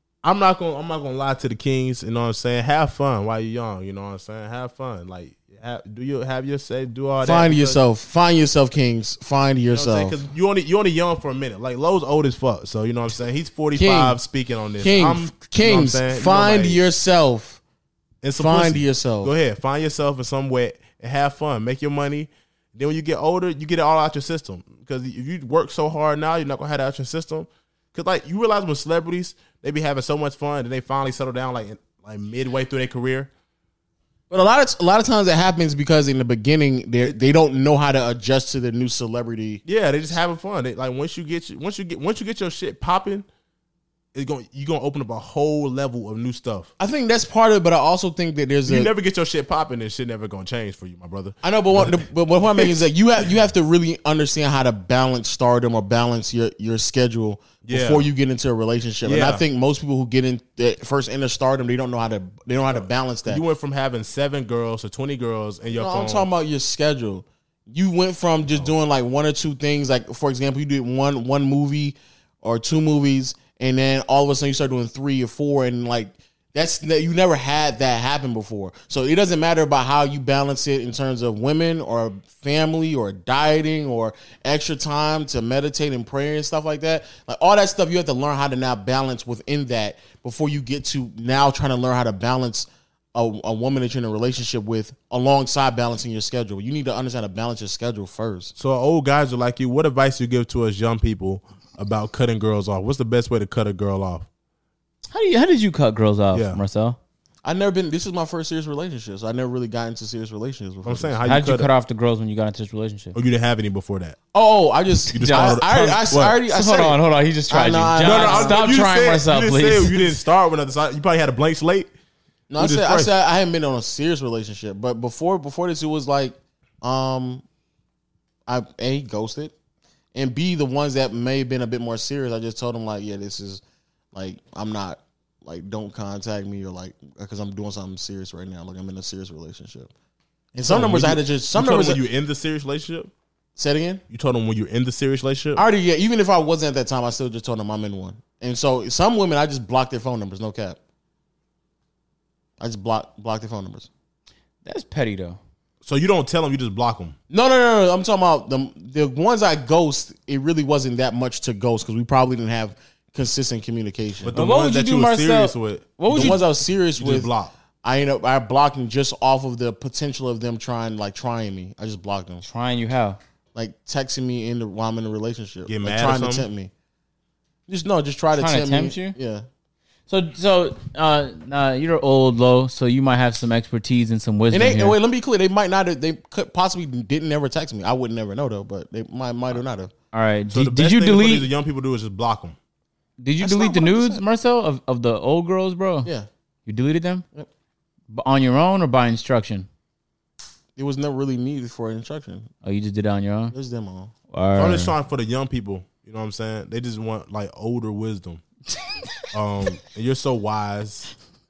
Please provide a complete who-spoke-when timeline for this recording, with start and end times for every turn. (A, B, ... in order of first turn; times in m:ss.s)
0:00.2-0:07.8 A
0:07.2-0:10.2 B
0:09.7-0:16.8 A
0:13.8-0:14.2 B
0:14.8-0:17.6 B
0:18.2-0:33.3 A
0:18.4-0:19.3 B
0:34.3-0:39.6 B
0:39.7-0:43.3 A
0:44.1-0:46.7 A
0:46.8-0:48.9 B
0:48.7-0:52.0 A
0:51.4-1:03.4 B
0:57.6-0:58.1 A
0:59.0-0:59.4 A
1:02.7-1:06.3 A
1:05.7-1:38.5 B
1:38.6-1:44.3 A
1:45.1-1:47.0 C
1:46.3-1:46.6 A
1:47.4-1:51.2 B
1:50.8-1:51.7 A
1:51.3-1:53.2 C
1:53.1-1:54.2 A
1:54.3-1:58.6 B
1:55.1-1:56.4 A
1:55.1-2:00.2 C
1:58.0-2:01.9 A
2:02.5-2:07.4 B
2:02.6-2:03.1 A
2:08.5-2:09.5 B
2:10.1-2:13.6 B
2:14.1-2:19.9 B
2:20.5-2:22.0 B
2:20.6-2:23.1 A
2:23.6-2:24.0 B
2:24.1-2:25.6 A
2:25.6-2:30.8 B
2:32.6-2:33.9 B
2:34.6-2:35.4 C
2:35.8-2:37.2 A
2:37.3-2:44.4 B
2:44.2-2:46.4 A
2:44.3-2:46.4 C
2:46.1-2:47.3 B
2:47.0-2:47.5 A
2:47.8-2:52.4 B
2:52.4-2:53.2 C
2:53.6-2:56.7 B
2:55.7-2:56.5 A
2:57.7-2:59.4 B
2:58.3-2:59.2 C
3:00.1-3:05.0 C
3:04.5-3:09.9 B
3:10.1-3:11.5 C
3:10.5-3:12.6 A
3:13.2-3:16.1 C
3:13.4-3:14.2 B
3:16.7-3:17.2 C
3:18.1-3:19.7 C
3:20.8-3:22.5 B
3:22.6-3:23.5 C
3:23.5-3:24.1 B
3:24.3-3:24.9 C
3:24.6-3:28.4 A
3:29.3-3:31.1 A